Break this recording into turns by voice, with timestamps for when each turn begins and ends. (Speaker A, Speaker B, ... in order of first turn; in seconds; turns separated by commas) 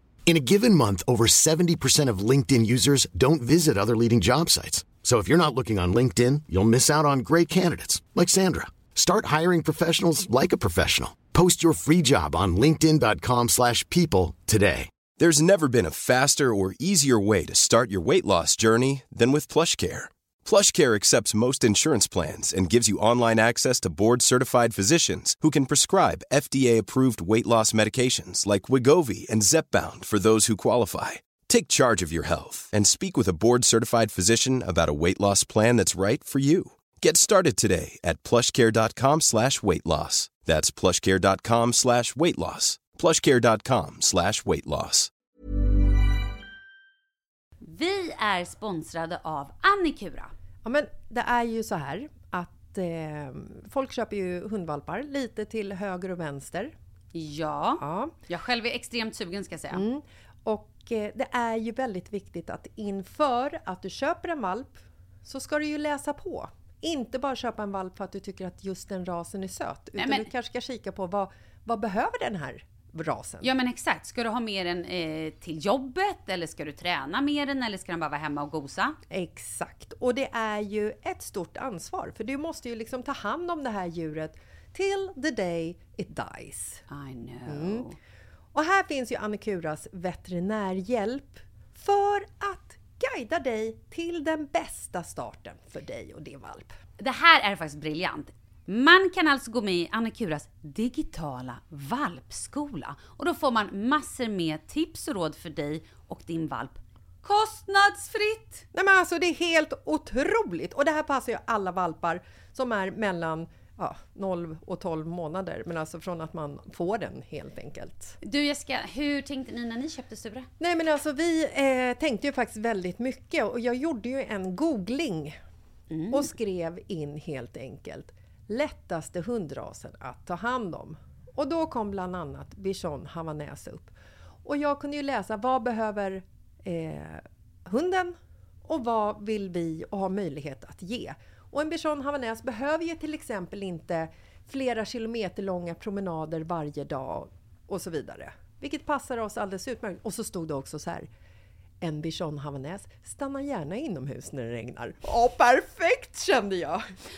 Speaker A: 0.2-14.9, Speaker B: 15.2-45.1, Speaker C: 47.6-50.3, Speaker D: 50.6-56.7, Speaker C: 57.1-59.8, Speaker D: 57.8-58.1, Speaker D: 59.7-73.5, Speaker C: 70.0-70.3, Speaker C: 73.4-79.0, Speaker D: 79.1-86.8, Speaker C: 86.9-88.0, Speaker D: 87.5-87.8, Speaker D: 88.5-96.7, Speaker C: 97.0-108.6, Speaker D: 108.7-118.2, Speaker C: 118.2-120.5, Speaker D: 120.6-125.3, Speaker C: 125.9-126.3, Speaker D: 126.1-133.9, Speaker D: 134.4-138.1, Speaker D: 138.7-151.1, Speaker D: 151.8-156.8